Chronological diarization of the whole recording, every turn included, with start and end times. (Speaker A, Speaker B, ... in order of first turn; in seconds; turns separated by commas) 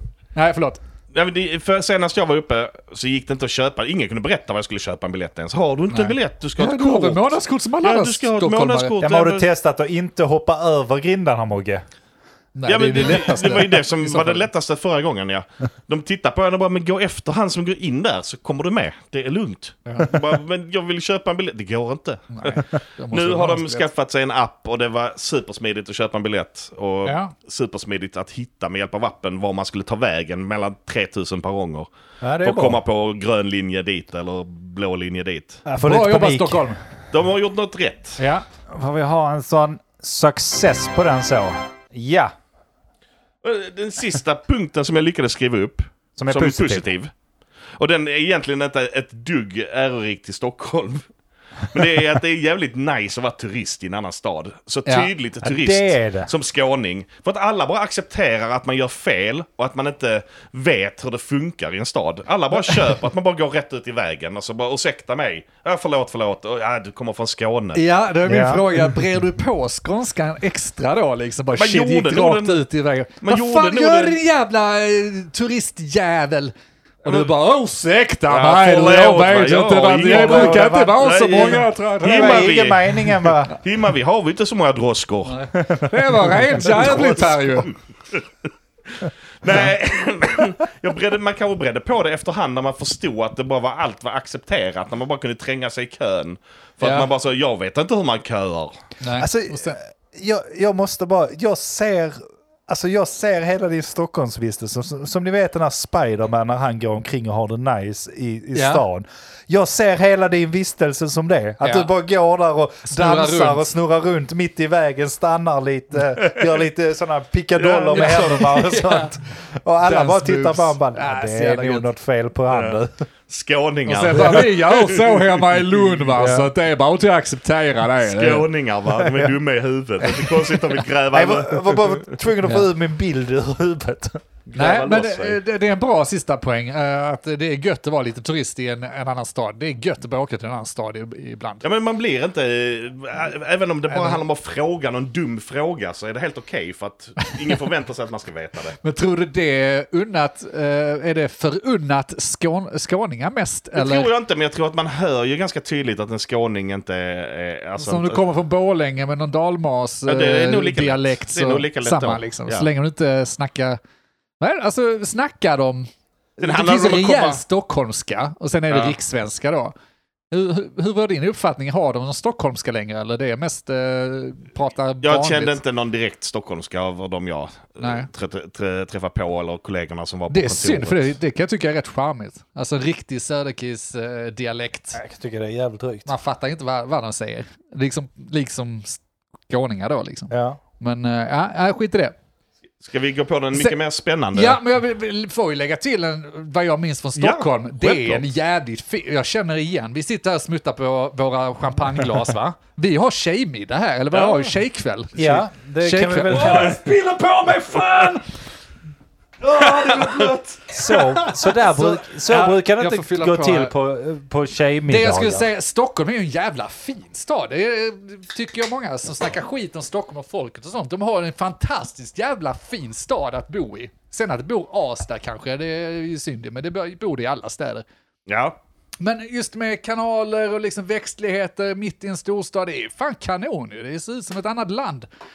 Speaker A: 0.3-0.8, Speaker B: 1.1-9.5, Speaker A: 5.9-8.9, Speaker C: 9.0-11.8, Speaker A: 12.6-14.5, Speaker B: 12.7-31.9, Speaker A: 19.9-20.2, Speaker A: 22.3-23.9, Speaker A: 27.1-27.3, Speaker C: 32.2-32.8, Speaker B: 32.4-35.6, Speaker C: 35.7-36.8, Speaker A: 35.8-36.8, Speaker B: 37.1-38.2, Speaker A: 38.2-38.5, Speaker C: 38.7-42.3, Speaker B: 43.4-47.1, Speaker C: 46.2-46.9, Speaker B: 47.8-51.0, Speaker B: 51.6-67.8, Speaker C: 55.4-56.3, Speaker A: 67.8-82.6, Speaker C: 68.2-68.7, Speaker B: 71.5-72.6, Speaker B: 73.2-74.2, Speaker B: 78.3-85.4, Speaker C: 80.0-83.5, Speaker A: 85.3-87.7, Speaker C: 85.5-87.0, Speaker B: 86.6-88.2, Speaker B: 89.0-98.8, Speaker A: 96.8-97.1, Speaker A: 99.0-99.8, Speaker C: 99.2-123.0, Speaker A: 108.5-108.8, Speaker A: 111.6-111.9, Speaker A: 112.9-113.7, Speaker B: 117.6-118.5, Speaker A: 117.9-119.2, Speaker A: 119.8-121.9, Speaker B: 122.5-126.0, Speaker A: 123.9-128.5, Speaker C: 126.2-126.5, Speaker B: 128.0-132.2, Speaker C: 129.0-129.3, Speaker A: 130.1-130.6, Speaker C: 131.1-134.2, Speaker B: 134.5-135.4, Speaker A: 134.6-141.6, Speaker B: 141.6-148.8, Speaker A: 143.9-144.2, Speaker A: 148.8-154.1, Speaker B: 153.7-158.2, Speaker A: 157.8-163.8, Speaker B: 160.1-162.7, Speaker A: 164.4-165.9, Speaker A: 166.4-169.7, Speaker B: 166.4-167.4, Speaker B: 168.7-168.9, Speaker A: 170.3-175.6, Speaker B: 175.0-181.1, Speaker A: 177.8-178.1, Speaker A: 180.3-185.0, Speaker C: 184.9-186.1, Speaker A: 186.1-192.2, Speaker C: 190.3-190.6, Speaker B: 192.8-194.6, Speaker A: 194.3-208.2, Speaker B: 197.2-198.2, Speaker B: 204.1-204.5, Speaker C: 205.2-206.8, Speaker B: 206.3-206.9, Speaker A: 209.4-213.7, Speaker B: 209.6-210.4, Speaker C: 210.7-215.5, Speaker A: 214.9-227.8, Speaker B: 228.3-228.6, Speaker A: 229.0-235.1